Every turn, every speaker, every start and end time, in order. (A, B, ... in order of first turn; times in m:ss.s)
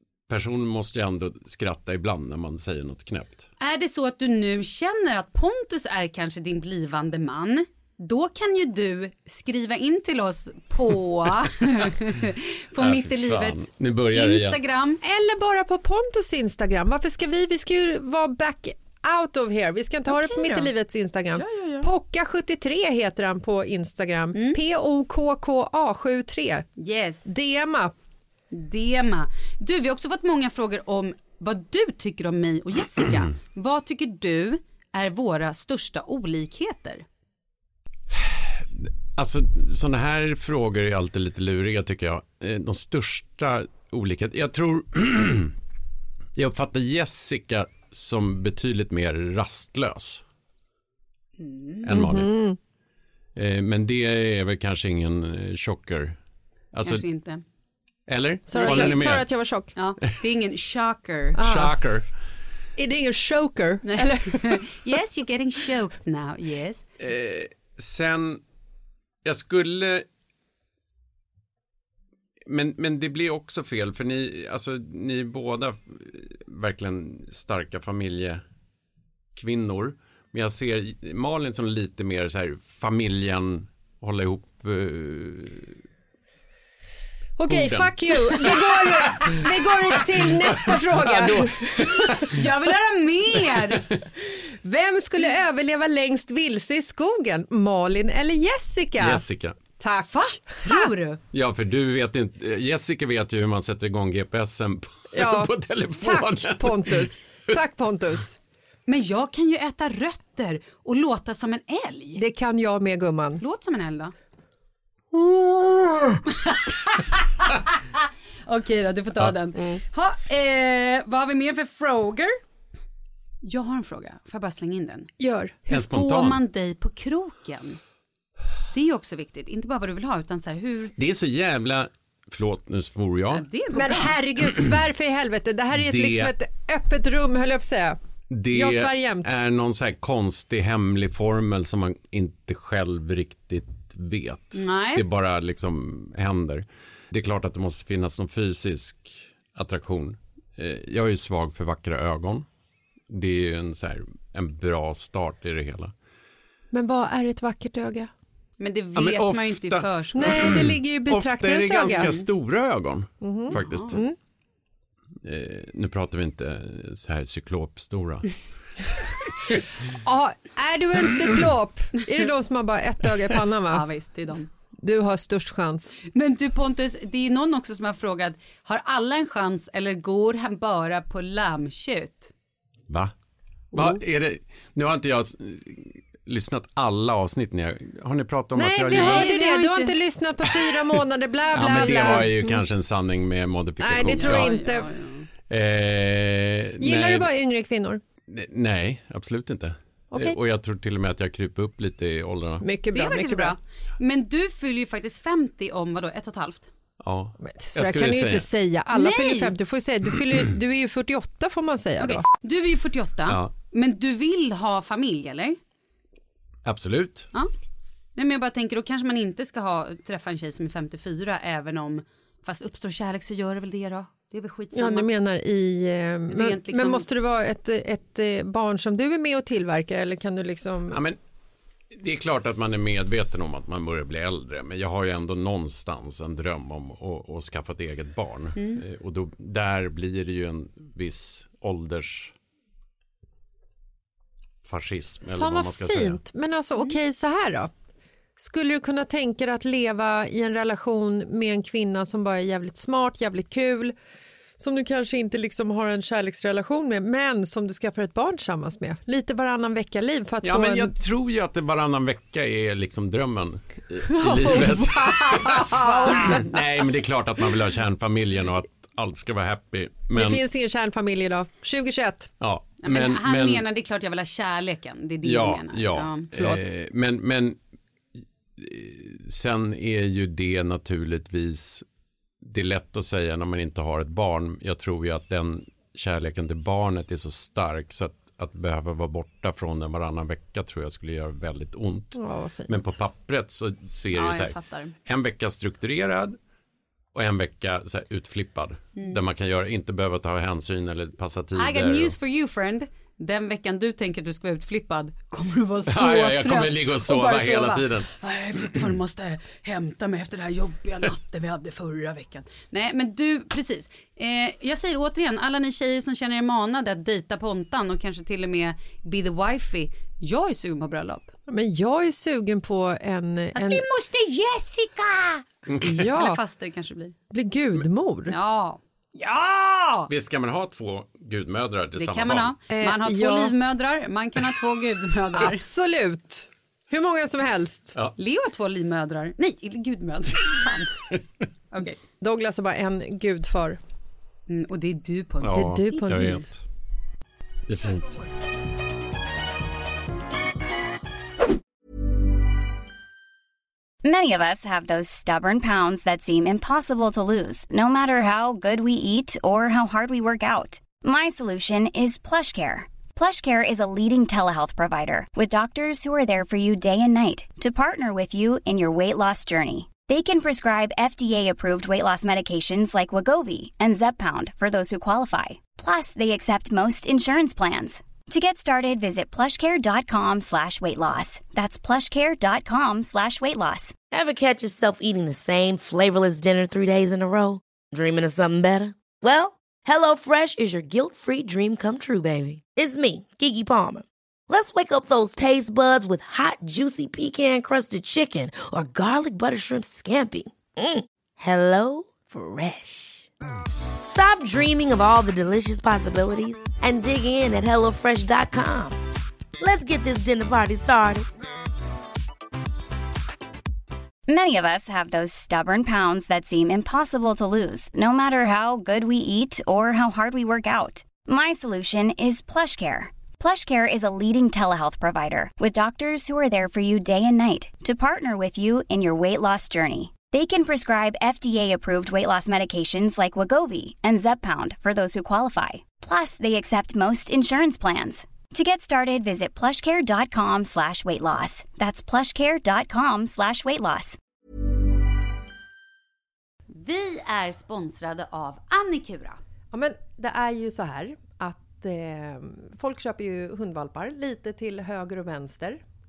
0:00.3-0:03.5 A
0:03.6-0:15.0 B
0:12.8-0:14.6 A
0:15.0-0:26.7 C
0:20.1-0:20.7 B
0:21.4-0:21.9 B
0:24.3-0:24.6 B
0:26.8-0:27.3 B
0:27.3-0:27.9 C
0:28.5-0:37.0 B
0:38.1-0:45.6 A
0:46.4-0:50.2 A
0:51.4-0:51.9 B
0:51.8-0:52.3 A
0:51.9-0:52.6 C
0:53.4-0:56.2 A
0:56.7-0:57.0 A
0:56.8-0:57.4 B
0:58.1-0:59.3 A
0:58.5-0:59.7 C
0:58.6-0:59.0 B
0:59.8-1:01.4 B
1:01.4-1:01.7 C
1:01.4-1:02.1 A
1:02.8-1:04.8 C
1:03.8-1:06.8 B
1:07.0-1:08.4 A
1:09.2-1:10.0 A
1:12.5-1:18.4 A
1:19.4-1:25.8 A
1:27.4-1:32.3 C
1:27.5-1:32.4 A
1:32.2-1:33.8 B
1:33.7-1:34.0 A
1:34.3-1:39.2 C
1:39.0-1:39.6 A
1:39.8-1:40.9 C
1:40.1-1:41.2 B
1:41.3-1:47.1 A
1:45.1-1:48.4 C
1:48.9-1:52.2 B
1:52.1-1:53.4 C
1:53.4-1:54.1 B
1:56.3-1:57.8 B
1:58.4-2:02.4 B
2:03.4-2:05.1 B
2:05.2-2:05.6 C
2:05.7-2:07.8 B
2:05.7-2:06.4 A
2:08.7-2:10.9 B
2:11.0-2:13.4 A
2:13.3-2:14.2 B
2:13.7-2:18.0 C
2:15.8-2:16.3 A
2:18.3-2:32.4 A
2:18.5-2:19.3 C
2:24.6-2:25.0 B
2:33.1-2:35.9 A
2:36.7-2:38.1 C
2:38.6-2:40.5 B
2:38.9-2:44.0 A
2:40.1-2:42.1 C
2:42.0-2:42.2 B
2:43.2-2:44.2 C
2:43.5-2:44.0 B
2:45.2-2:48.4 A
2:49.3-2:49.6 A
2:50.0-2:53.9 C
2:53.7-2:54.5 B
2:54.8-2:55.9 C
2:56.1-3:02.3 B
3:03.7-3:09.3 A
3:03.8-3:04.0 B
3:08.6-3:12.6 C
3:08.9-3:10.0 B
3:11.5-3:14.5 A
3:11.6-3:12.3 B
3:13.8-3:14.9 C
3:14.0-3:15.3 B
3:15.5-3:17.3 A
3:16.8-3:18.0 C
3:18.3-3:22.6 A
3:20.1-3:20.4 C
3:22.6-3:23.6 C
3:22.9-3:26.7 B
3:27.0-3:28.5 A
3:27.4-3:32.2 C
3:28.9-3:29.5 B
3:32.0-3:35.6 B
3:33.3-3:33.5 A
3:36.6-3:37.3 A
3:38.2-3:45.1 B
3:44.7-3:51.0 C
3:46.3-3:47.1 B
3:50.9-3:51.2 A
3:52.0-4:02.4 A
4:04.6-4:06.2 A
4:05.4-4:07.7 C
4:08.4-4:13.9 C
4:14.6-4:20.9 C
4:20.4-4:30.4 A
4:24.1-4:26.6 C
4:25.8-4:26.4 B
4:30.1-4:32.3 C
4:32.4-4:33.6 A
4:32.8-4:36.3 B
4:35.2-4:37.6 A
4:36.3-4:36.7 C
4:38.6-4:41.8 A
4:42.4-4:56.4 A
4:52.1-4:52.9 C
4:54.1-4:54.9 B
4:57.1-5:02.1 A
5:01.6-5:21.3 B
5:05.9-5:08.1 A
5:21.5-5:23.8 C
5:23.5-5:27.1 B
5:25.8-5:26.4 C
5:27.3-5:28.4 C
5:28.3-5:30.1 B
5:30.1-5:32.5 A
5:32.0-5:35.6 B
5:32.7-5:33.6 C
5:35.4-5:38.0 C
5:38.2-5:41.0 B
5:41.7-5:42.0 B
5:42.2-5:43.8 C
5:44.5-5:46.5 B
5:45.4-5:46.6 A
5:45.5-5:46.5 C
5:47.7-5:48.2 A
5:54.0-6:23.9 D
6:24.1-6:43.3 E
6:44.0-6:49.0 E
6:49.6-6:51.3 E
6:54.3-7:24.2 D
7:26.7-7:29.4 B
7:29.7-7:35.8 C